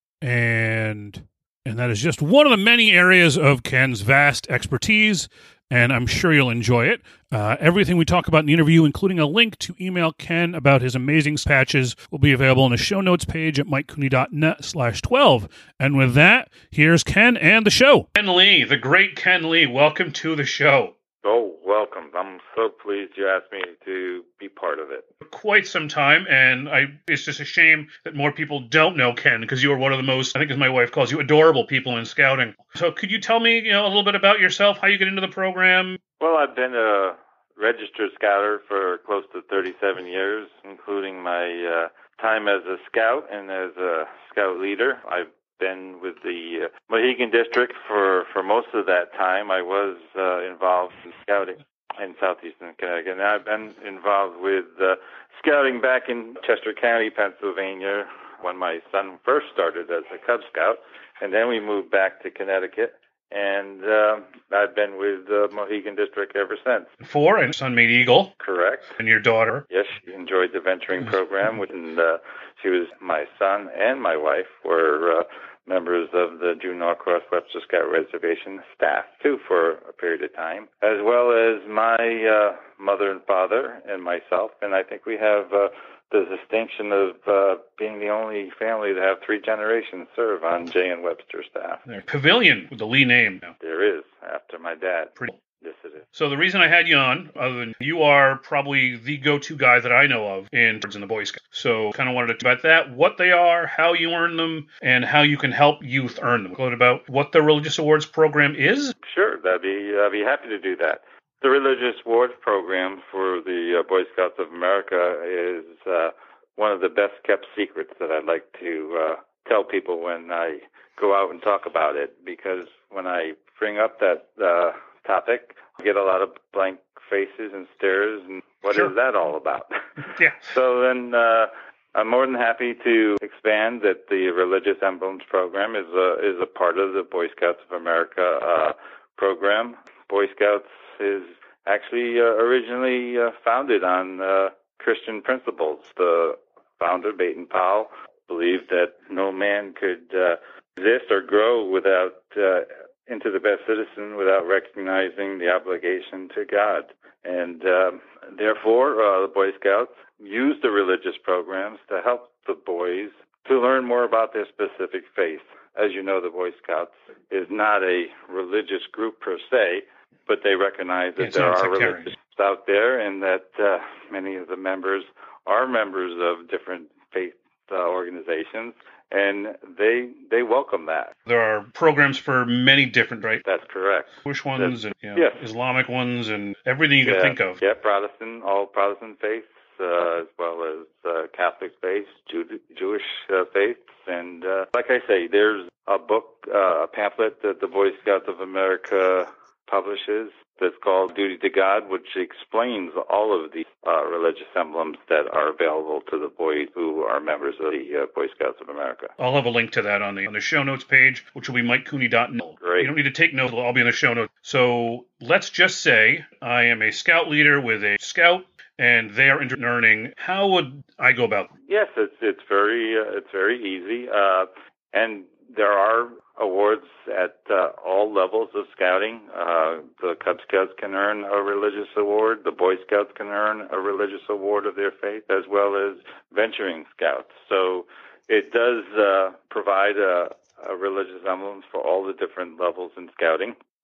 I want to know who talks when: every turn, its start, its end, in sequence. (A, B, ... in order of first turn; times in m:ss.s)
0:00.2-0:20.9 A
0:21.2-0:25.1 B
0:25.2-0:36.0 A
0:36.2-1:06.9 B
1:07.0-1:08.3 A
1:08.4-1:09.0 B
1:09.0-1:09.6 A
1:09.7-1:31.8 B
1:31.9-1:33.5 A
1:33.6-1:36.1 B
1:36.2-1:48.9 A
1:49.0-3:01.1 B
2:10.2-2:10.5 A
2:51.2-2:52.1 A
3:01.3-3:03.4 A
3:03.4-3:05.4 B
3:04.2-3:07.6 A
3:07.0-3:29.1 B
3:29.2-3:41.5 A
3:32.6-3:32.9 B
3:41.7-4:03.6 B